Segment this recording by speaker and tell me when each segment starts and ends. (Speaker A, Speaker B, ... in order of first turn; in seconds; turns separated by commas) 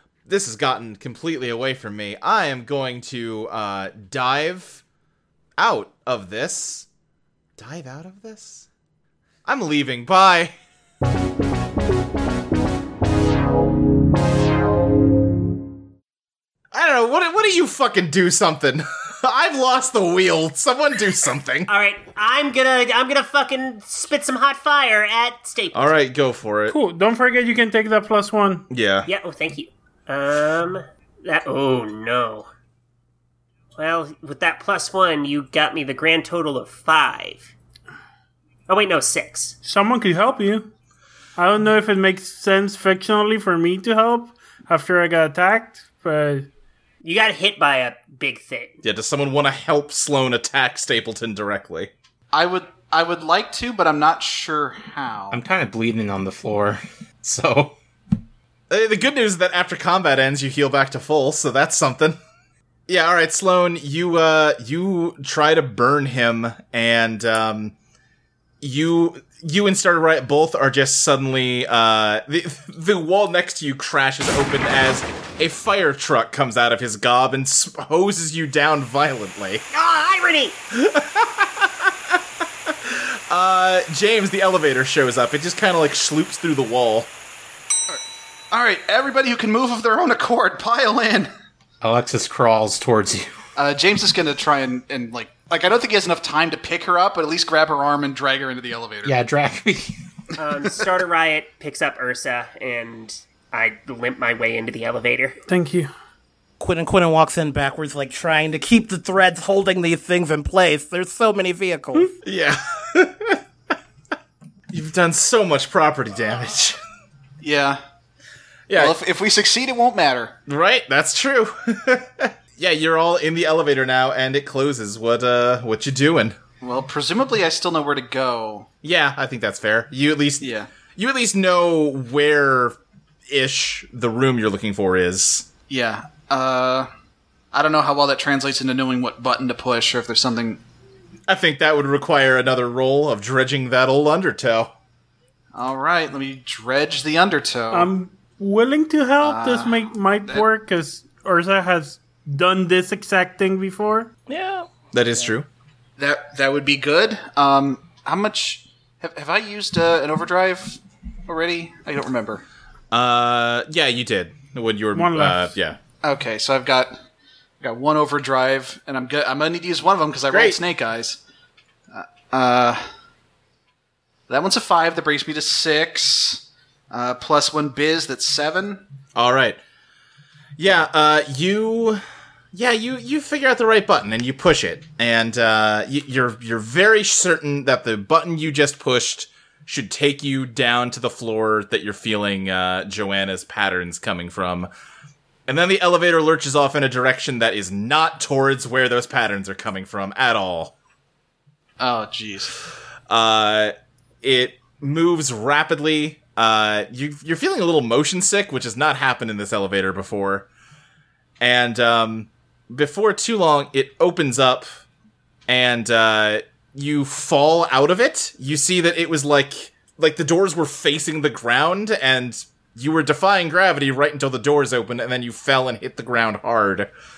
Speaker A: 0.3-4.8, Speaker A: 5.6-6.9, Speaker A: 7.6-8.7, Speaker A: 9.4-10.5, Speaker A: 16.7-21.7, Speaker B: 21.7-25.9, Speaker A: 25.7-26.8, Speaker C: 26.7-28.6, Speaker A: 28.7-29.1, Speaker B: 29.1-32.5, Speaker B: 33.8-37.5, Speaker B: 38.7-39.5, Speaker C: 39.6-40.7, Speaker C: 41.4-46.5, Speaker B: 47.0-48.7, Speaker A: 48.8-51.9, Speaker D: 52.3-55.4, Speaker E: 55.3-57.8, Speaker A: 58.7-62.2, Speaker A: 62.9-67.7, Speaker A: 68.6-79.6, Speaker B: 79.7-80.6, Speaker A: 80.7-87.1, Speaker D: 87.9-91.3, Speaker E: 91.8-93.3, Speaker D: 93.5-99.2, Speaker E: 99.0-99.9, Speaker B: 100.3-105.4, Speaker C: 105.5-105.9, Speaker F: 106.6-112.1, Speaker A: 112.2-113.4, Speaker A: 114.7-116.8, Speaker D: 117.4-117.8, Speaker A: 118.7-119.0, Speaker D: 118.7-120.3, Speaker A: 120.5-126.3, Speaker D: 126.6-128.7, Speaker A: 128.8-132.8, Speaker D: 130.4-130.7, Speaker A: 133.3-135.5, Speaker D: 135.7-136.9, Speaker D: 137.5-140.6, Speaker A: 141.3-144.7, Speaker D: 145.5-147.9, Speaker C: 147.7-154.1, Speaker D: 149.2-150.4, Speaker F: 154.3-154.7, Speaker A: 154.9-155.4, Speaker D: 156.0-162.4, Speaker A: 162.9-165.8, Speaker C: 164.9-165.5, Speaker D: 166.0-167.0, Speaker D: 167.6-171.2, Speaker A: 170.3-170.6, Speaker D: 171.9-172.8, Speaker D: 174.3-178.8, Speaker A: 179.1-179.6, Speaker A: 180.6-182.0, Speaker A: 182.5-194.7, Speaker A: 195.5-200.7, Speaker D: 201.8-202.6, Speaker A: 203.1-210.5, Speaker A: 211.4-214.7, Speaker A: 215.5-226.9